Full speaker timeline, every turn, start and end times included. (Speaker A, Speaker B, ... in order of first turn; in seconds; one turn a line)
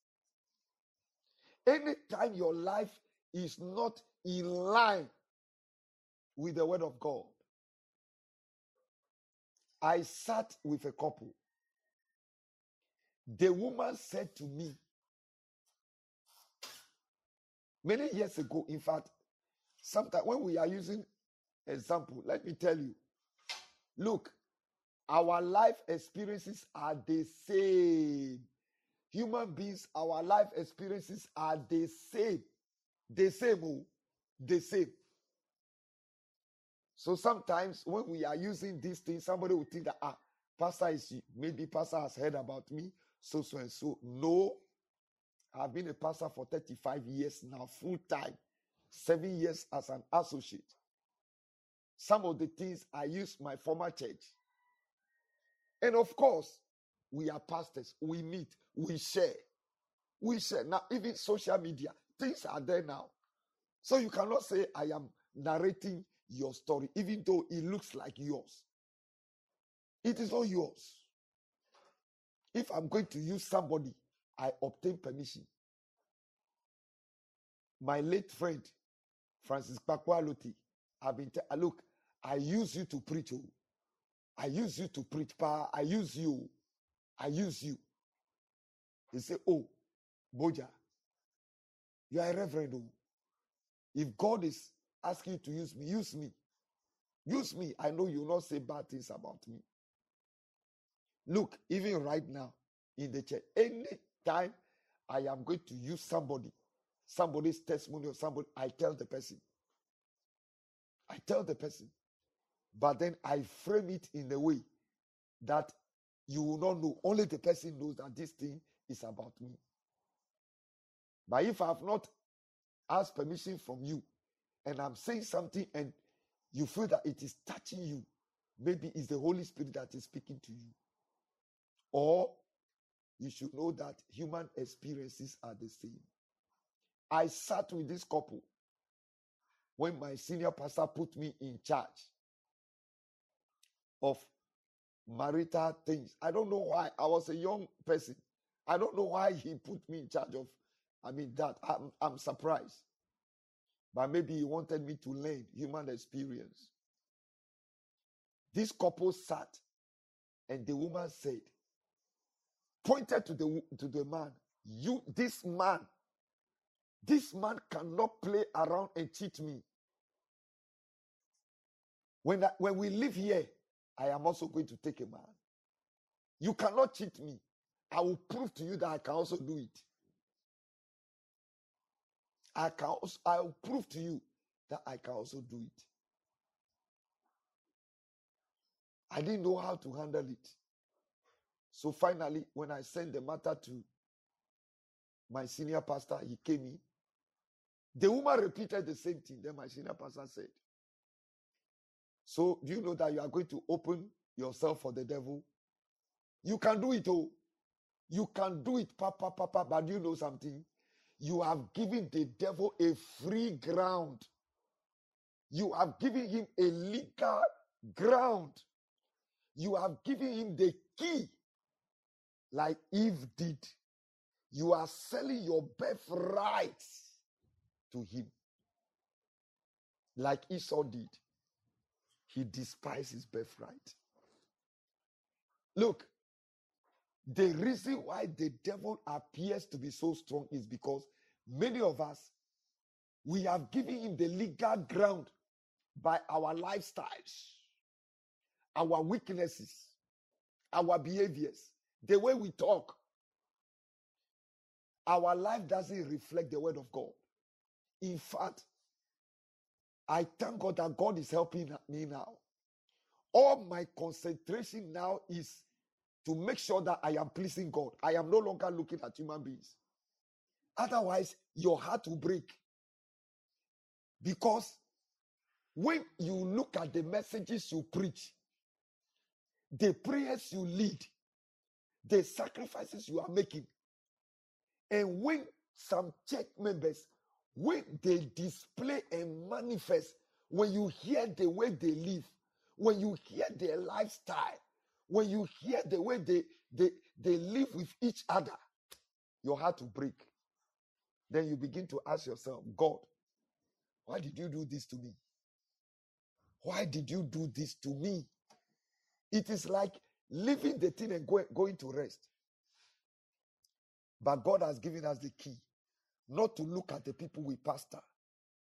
Speaker A: 1.7-5.1
Speaker A: 6.4-7.4
Speaker A: 9.8-11.4
Speaker A: 13.3-14.8
Speaker A: 17.8-19.1
Speaker A: 19.8-21.1
Speaker A: 21.7-23.0
Speaker A: 24.0-24.4
Speaker A: 25.1-28.4
Speaker A: 29.1-32.5
Speaker A: 33.1-33.9
Speaker A: 34.4-35.0
Speaker A: 37.0-44.6
Speaker A: 45.5-48.4
Speaker A: 48.9-50.7
Speaker A: 52.0-54.3
Speaker A: 55.8-59.4
Speaker A: 60.2-63.1
Speaker A: 63.8-68.7
Speaker A: 70.0-71.1
Speaker A: 72.5-75.5
Speaker A: 77.8-78.7
Speaker A: 79.4-83.5
Speaker A: 84.4-86.5
Speaker A: 87.2-87.8
Speaker A: 89.1-89.7
Speaker A: 90.3-90.7
Speaker A: 92.1-92.9
Speaker A: 93.9-96.3
Speaker A: 97.3-99.7
Speaker A: 101.3-104.6
Speaker A: 105.1-106.5
Speaker A: 107.1-109.4
Speaker A: 111.1-111.9
Speaker A: 112.7-114.6
Speaker A: 115.4-115.7
Speaker A: 116.3-119.6
Speaker A: 121.3-122.1
Speaker A: 122.9-124.0
Speaker A: 124.7-126.0
Speaker A: 126.5-128.1
Speaker A: 128.6-130.8
Speaker A: 131.9-132.4
Speaker A: 133.2-136.1
Speaker A: 137.1-138.5
Speaker A: 139.8-142.1
Speaker A: 144.0-144.3
Speaker A: 145.1-152.8
Speaker A: 153.9-156.7
Speaker A: 158.5-159.6
Speaker A: 160.5-161.5
Speaker A: 162.8-165.9
Speaker A: 167.0-169.7
Speaker A: 172.2-175.4
Speaker A: 176.4-179.8
Speaker A: 182.6-185.9
Speaker A: 189.1-190.6
Speaker A: 191.7-193.9
Speaker A: 195.3-196.8
Speaker A: 198.0-200.6
Speaker A: 202.2-205.5
Speaker A: 206.4-207.3
Speaker A: 208.1-210.7
Speaker A: 211.2-214.3
Speaker A: 215.5-218.6
Speaker A: 219.6-221.4
Speaker A: 222.5-223.7
Speaker A: 224.5-227.1
Speaker A: 227.9-228.3
Speaker A: 230.2-231.2
Speaker A: 232.3-234.0
Speaker A: 235.8-236.1
Speaker A: 237.3-242.3
Speaker A: 243.2-245.3
Speaker A: 246.0-247.6
Speaker A: 248.8-249.9
Speaker A: 250.7-253.0
Speaker A: 255.1-257.2
Speaker A: 258.0-258.6
Speaker A: 260.1-262.4
Speaker A: 263.3-265.6
Speaker A: 266.2-269.8
Speaker A: 270.8-272.6
Speaker A: 274.2-274.8
Speaker A: 275.8-278.4
Speaker A: 279.7-281.1
Speaker A: 282.1-283.7
Speaker A: 284.9-298.6
Speaker A: 299.4-300.3
Speaker A: 301.3-303.1
Speaker A: 304.1-305.2
Speaker A: 306.6-308.3
Speaker A: 309.3-312.3
Speaker A: 314.2-315.6
Speaker A: 316.3-318.0